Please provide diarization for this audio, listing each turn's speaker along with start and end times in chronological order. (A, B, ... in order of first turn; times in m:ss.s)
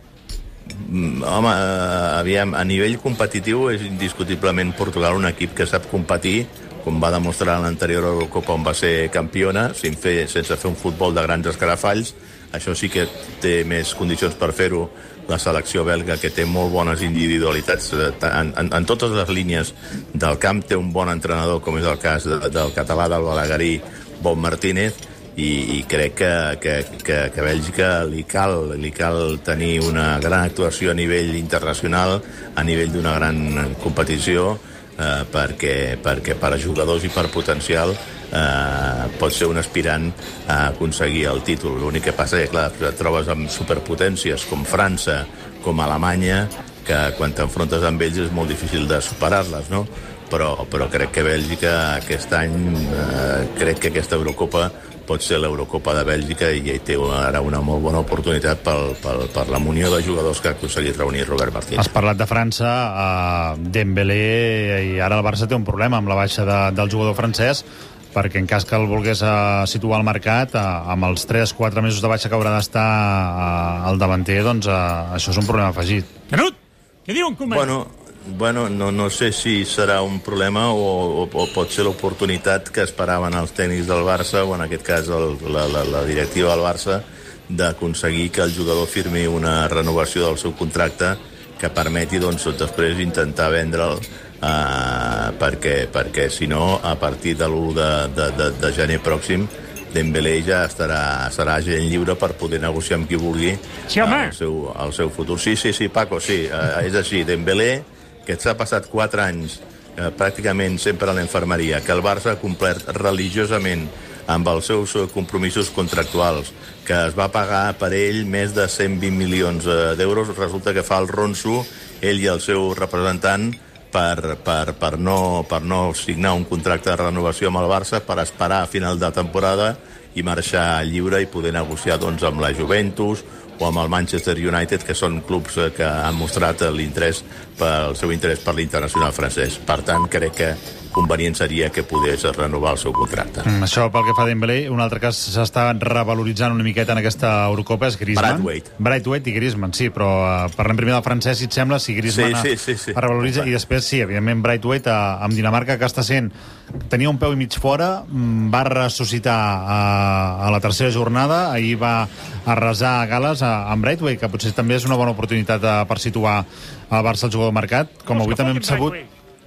0:00.7-1:01.9 A
1:01.8-1:16.1 B
1:16.3-1:17.7 C
1:17.5-2:23.5 A
1:43.9-1:44.3 C
2:23.4-2:36.3 B
2:28.1-2:28.7 A
2:32.1-2:33.5 A
2:36.9-2:49.0 B
2:48.1-2:49.1 C